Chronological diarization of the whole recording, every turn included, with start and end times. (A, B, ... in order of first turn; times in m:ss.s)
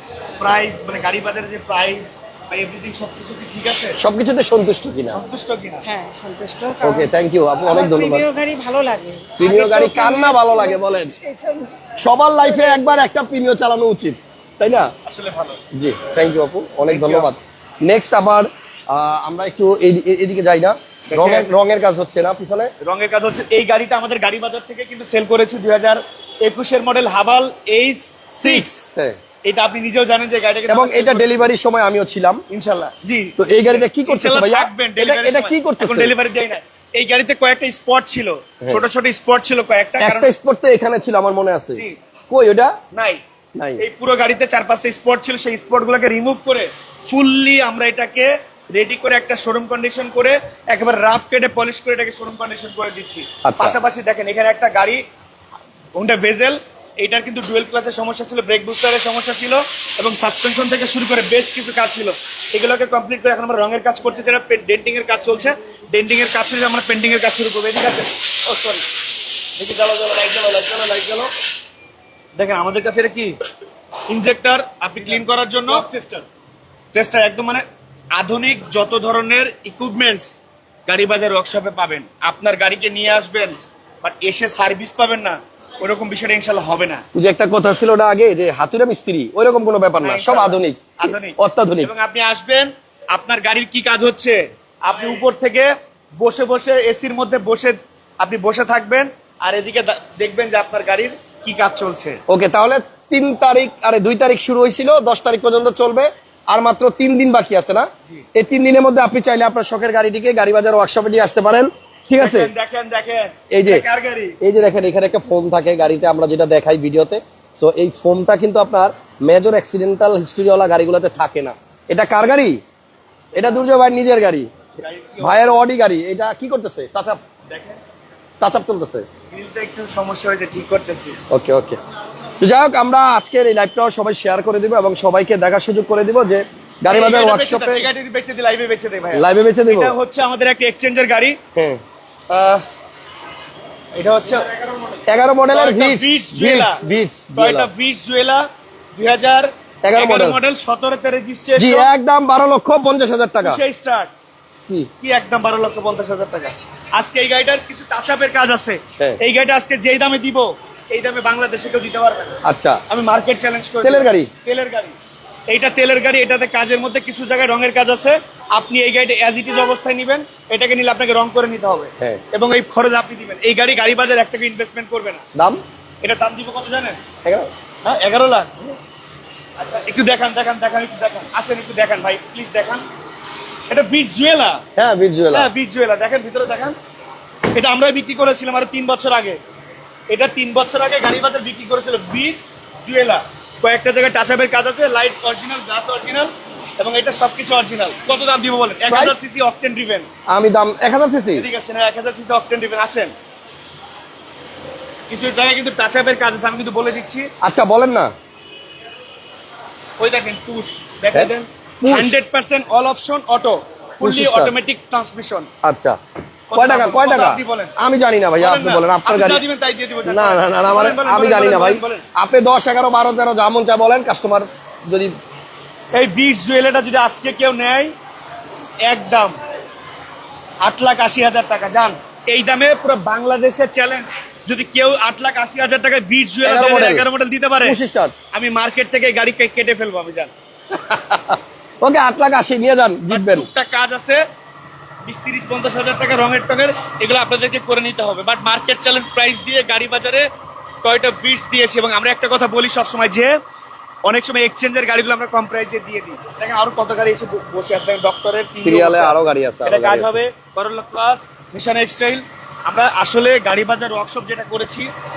0:00.4-0:04.0 A
0:04.0-0:05.2 B
0:05.1-0:05.8 A
0:05.8-0:07.1 C
0:06.8-0:08.3 B
0:07.8-0:11.7 C
0:09.4-0:11.1 B
0:12.0-0:14.9 B
0:15.0-0:15.6 A
0:15.7-0:22.7 B
0:16.9-0:17.3 A
0:21.1-0:21.5 A
0:22.8-0:28.7 A
0:28.4-0:29.2 B
0:29.4-0:31.4 A
0:30.7-0:32.4 B
0:32.5-0:40.3 A
0:33.4-0:36.2 B
0:40.0-0:42.8 B
0:42.9-0:43.2 A
0:43.6-0:43.8 B
0:43.8-0:55.0 A
0:53.4-0:53.8 B
0:55.9-1:08.8 A
1:09.6-1:11.3 A
1:12.4-1:13.3 A
1:14.1-1:16.2 A
1:16.9-1:27.0 A
1:27.1-1:31.9 B
1:30.0-1:42.2 A
1:42.3-1:52.5 B
1:52.2-1:54.4 A
1:53.5-1:53.8 B
1:54.4-2:02.6 B
2:03.4-2:04.5 B
2:04.8-2:05.4 A
2:05.2-2:07.2 B
2:07.5-2:07.8 A
2:08.4-2:09.1 B
2:09.3-2:11.2 A
2:11.3-2:11.8 B
2:12.4-2:17.9 B
2:16.9-2:21.4 A
2:19.1-2:19.9 B
2:21.5-2:21.8 B
2:22.3-2:22.6 A
2:23.9-2:26.8 A
2:25.1-2:27.7 B
2:27.3-2:31.9 A
2:29.8-2:30.4 B
2:31.6-2:33.6 B
2:33.4-2:34.1 A
2:35.0-2:44.9 A
2:42.4-2:42.8 B
2:43.8-2:44.3 B
2:45.5-2:55.2 A
2:55.3-2:55.6 B
2:56.0-2:57.0 A
2:57.8-2:58.8 A
2:59.6-3:02.8 A
3:03.7-3:04.6 A
3:04.8-3:05.5 B
3:05.3-3:06.8 A
3:07.5-3:09.4 A
3:10.1-3:20.1 A
3:18.9-3:19.2 B
3:20.3-3:21.4 B
3:21.3-3:23.1 A
3:25.1-3:27.3 A
3:27.4-3:28.1 B
3:30.0-3:35.5 A
3:31.1-3:32.2 B
3:34.0-3:34.5 B
3:35.6-3:36.0 B
3:36.5-3:37.7 A
3:36.5-3:39.4 B
3:38.4-3:42.0 A
3:40.0-3:45.2 B
3:45.9-3:47.9 A
3:48.8-3:49.3 A
3:50.6-3:57.8 A
3:56.4-3:57.1 B
3:57.6-3:58.1 B
3:58.3-4:00.3 A
4:00.7-4:03.5 B
4:03.1-4:04.2 A
4:05.0-4:10.3 A
4:10.8-4:13.3 A
4:14.0-4:24.9 A
4:18.5-4:20.2 B